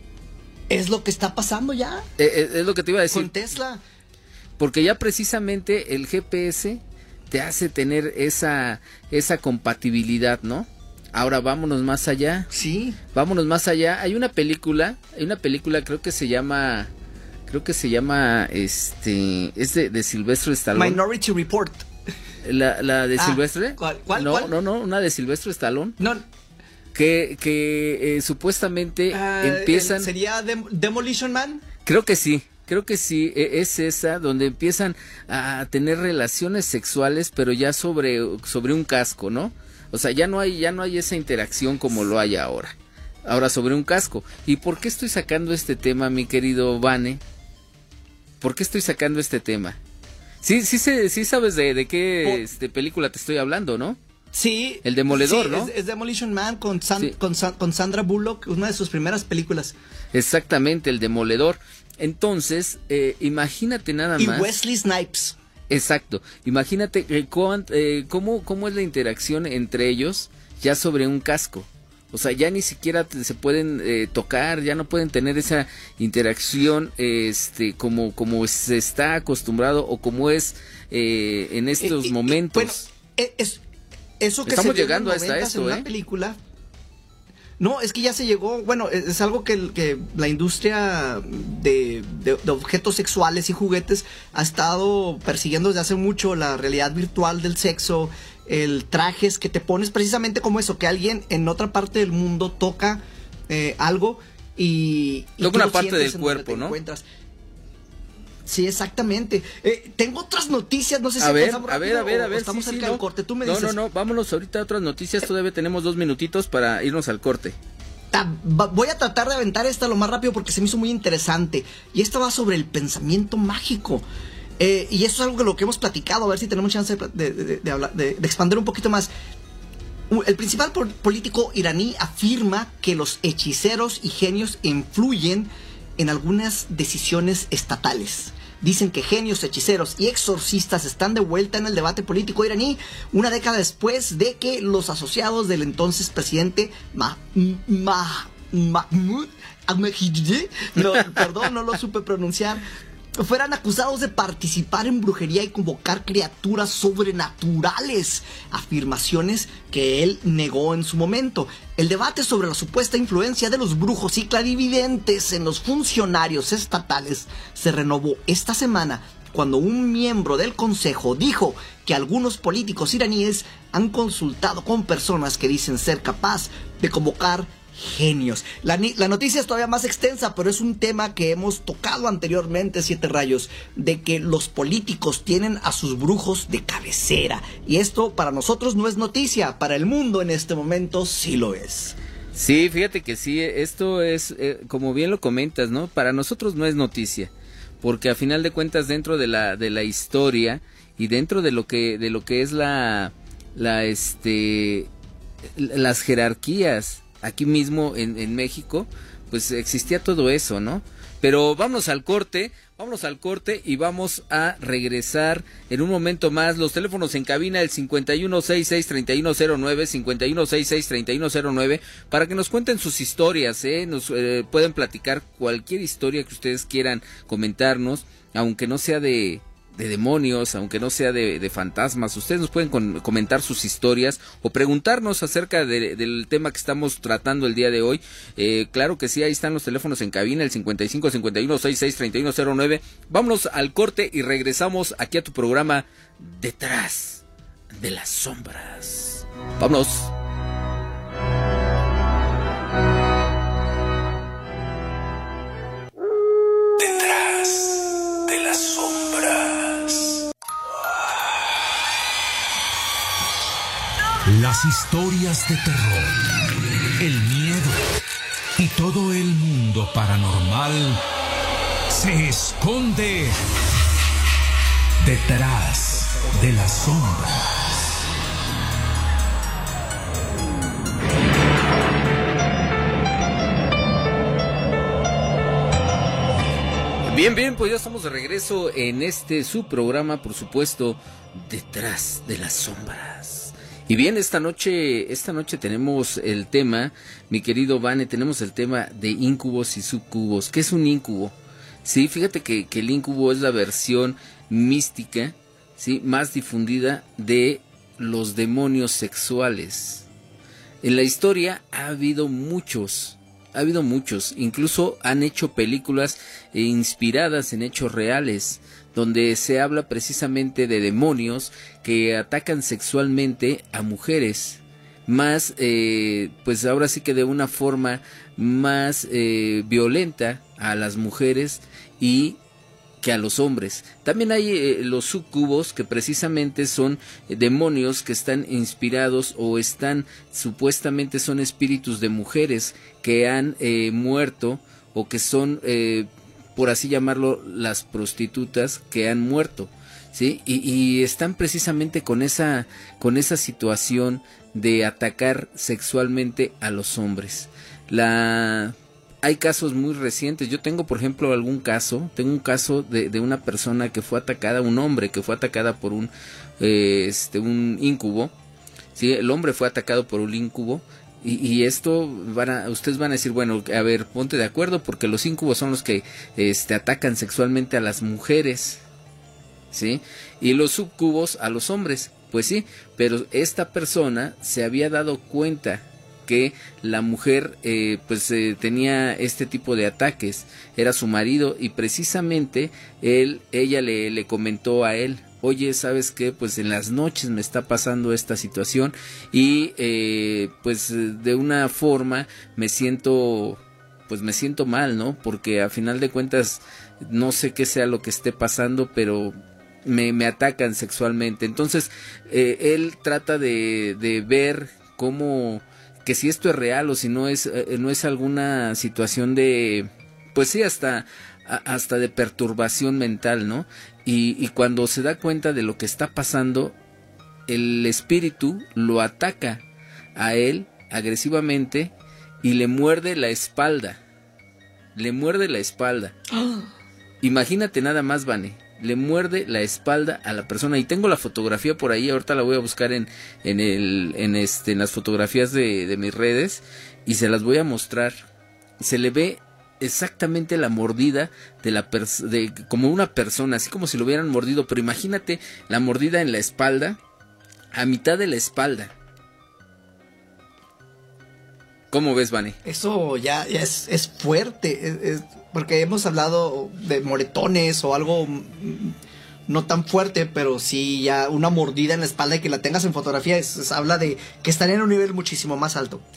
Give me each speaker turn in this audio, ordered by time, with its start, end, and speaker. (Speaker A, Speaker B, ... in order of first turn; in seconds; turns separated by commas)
Speaker A: 0.7-2.1, Speaker B: 2.2-3.5, Speaker A: 3.1-3.8, Speaker B: 4.6-12.5, Speaker A: 12.5-13.0, Speaker B: 13.1-16.9, Speaker B: 17.5-21.0, Speaker A: 20.7-21.9, Speaker B: 22.4-26.0, Speaker A: 23.2-24.5, Speaker A: 26.0-26.2, Speaker B: 26.9-30.1, Speaker A: 29.1-31.6, Speaker B: 31.9-42.7, Speaker B: 43.2-47.2, Speaker B: 48.4-49.8, Speaker B: 50.4-54.0, Speaker A: 54.3-59.7, Speaker B: 54.8-55.7, Speaker B: 60.1-64.5, Speaker A: 64.2-65.4, Speaker B: 65.7-82.9, Speaker A: 81.8-83.6, Speaker A: 84.2-86.4, Speaker B: 84.4-85.9, Speaker A: 87.6-107.0, Speaker B: 105.4-106.8, Speaker A: 108.5-113.8, Speaker B: 111.2-117.5, Speaker A: 118.1-124.0, Speaker A: 124.6-129.1, Speaker A: 130.1-152.6, Speaker A: 153.2-192.0, Speaker B: 192.3-197.3, Speaker B: 197.8-204.9, Speaker B: 205.5-247.2, Speaker B: 247.7-250.1, Speaker C: 256.8-260.2, Speaker C: 264.2-266.2, Speaker C: 267.0-267.9, Speaker C: 268.6-271.0, Speaker C: 271.9-273.4, Speaker C: 275.0-278.0, Speaker B: 287.1-310.1, Speaker B: 310.8-332.4, Speaker B: 333.0-368.3, Speaker B: 368.9-378.8, Speaker B: 379.7-426.7, Speaker B: 427.5-429.6, Speaker B: 430.1-434.0, Speaker B: 434.9-436.1, Speaker A: 436.3-436.7, Speaker B: 437.2-448.1, Speaker B: 448.8-457.0, Speaker B: 457.7-458.9, Speaker B: 461.9-462.6, Speaker A: 462.6-468.9, Speaker A: 469.5-476.0